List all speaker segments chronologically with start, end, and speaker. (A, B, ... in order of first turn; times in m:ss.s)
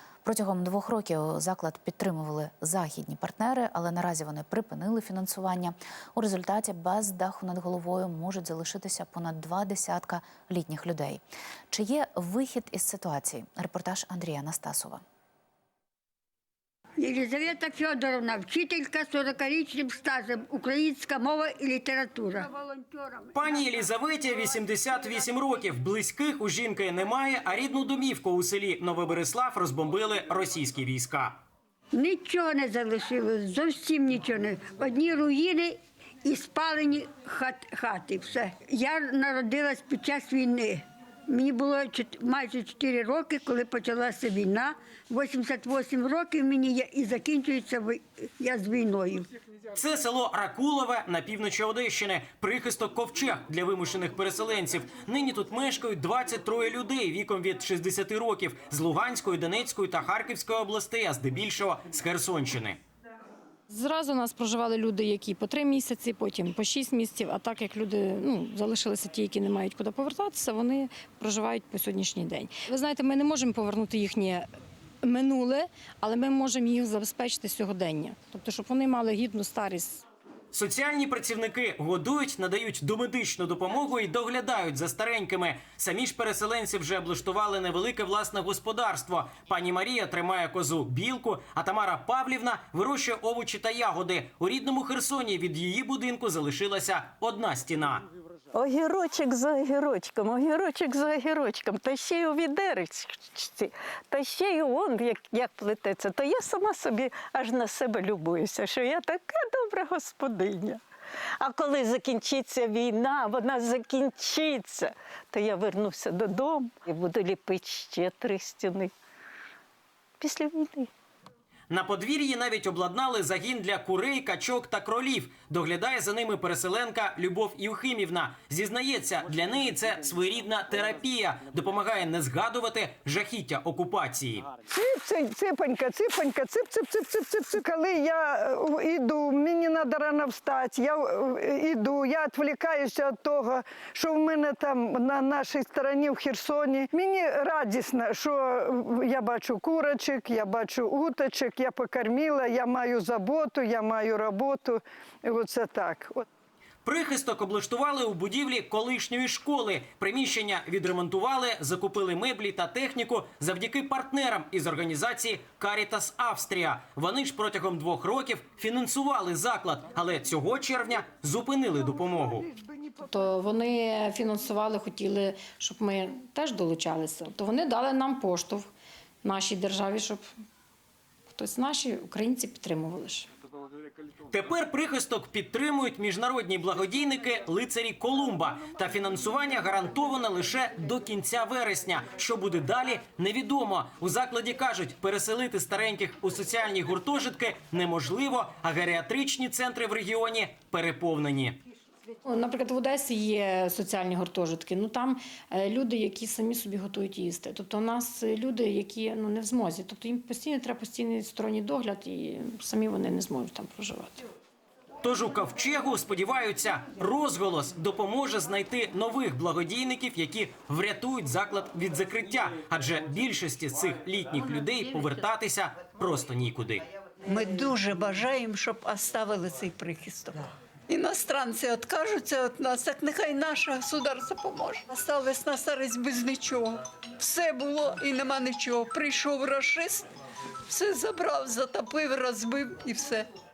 0:00.2-0:15.0 A
0:17.0-0:23.5 B
0:23.3-0:31.4 C
0:31.9-0:49.3 B
0:49.8-1:02.8 C
1:03.7-1:14.5 D
1:15.0-1:20.0 D
1:20.5-1:38.1 C
1:38.5-1:50.8 E
1:51.4-1:58.9 E
2:00.2-2:00.9 E
2:01.7-2:14.5 C
2:14.7-2:36.2 F
2:36.8-2:52.5 C
2:53.0-2:58.7 D
2:59.2-3:00.2 D
3:01.3-3:03.3 D
3:04.3-3:21.6 C
3:22.2-3:34.3 D
3:35.0-3:46.9 C
3:47.3-4:00.1 G
4:00.7-4:03.3 G